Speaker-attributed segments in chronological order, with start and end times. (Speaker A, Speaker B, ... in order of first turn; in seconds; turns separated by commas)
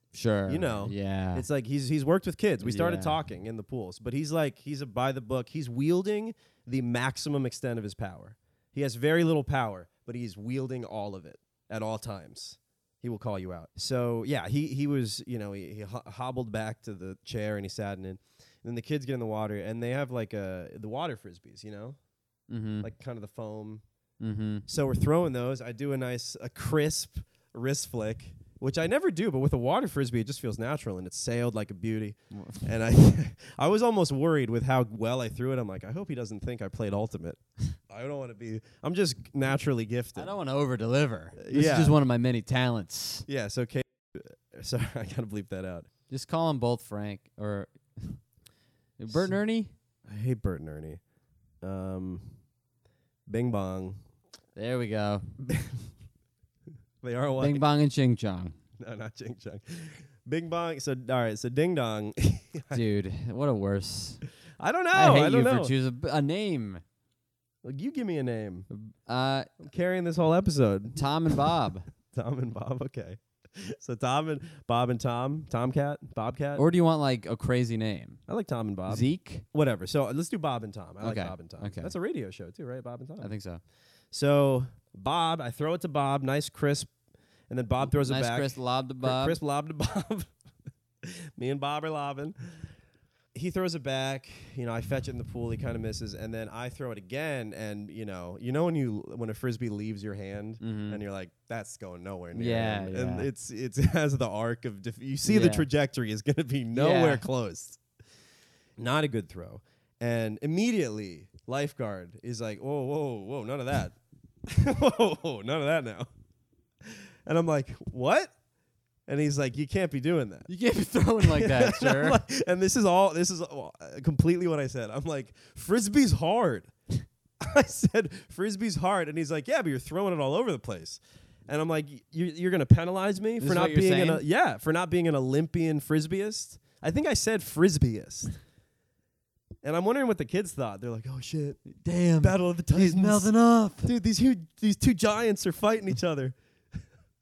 Speaker A: 0.1-1.5, Speaker B: 0.5-22.0, Speaker A: 2.6-3.2, Speaker A: 22.5-22.9, Speaker B: 22.8-23.8, Speaker A: 24.2-24.6, Speaker B: 24.7-40.3, Speaker A: 32.3-32.7, Speaker A: 40.2-43.3, Speaker B: 41.4-42.0, Speaker B: 43.3-45.9, Speaker A: 46.1-48.2, Speaker A: 49.0-49.7, Speaker B: 50.1-51.0, Speaker B: 51.6-52.3, Speaker B: 53.3-54.0, Speaker A: 54.6-55.3, Speaker B: 55.5-55.9, Speaker B: 57.0-57.6, Speaker A: 57.4-58.5, Speaker B: 58.8-62.8, Speaker A: 62.7-64.2, Speaker B: 64.6-65.7, Speaker A: 64.9-66.8, Speaker B: 67.6-68.7, Speaker A: 68.7-69.5, Speaker B: 69.6-71.5, Speaker A: 71.0-71.9, Speaker B: 72.1-76.6, Speaker A: 76.6-78.2, Speaker B: 78.3-83.3, Speaker A: 78.9-79.5, Speaker A: 81.0-81.9, Speaker A: 83.2-83.6, Speaker B: 84.1-86.9, Speaker B: 87.5-90.3, Speaker A: 87.8-89.4, Speaker B: 91.0-92.7, Speaker B: 93.3-107.8, Speaker A: 100.6-101.0, Speaker A: 102.3-103.3, Speaker A: 105.3-105.7, Speaker A: 106.7-107.2, Speaker B: 108.8-116.1, Speaker B: 116.8-118.3, Speaker B: 119.1-120.5, Speaker A: 120.5-122.2, Speaker B: 121.2-126.7, Speaker B: 127.4-138.4, Speaker A: 133.4-134.2, Speaker B: 139.6-141.7, Speaker A: 141.7-143.9, Speaker B: 142.2-146.4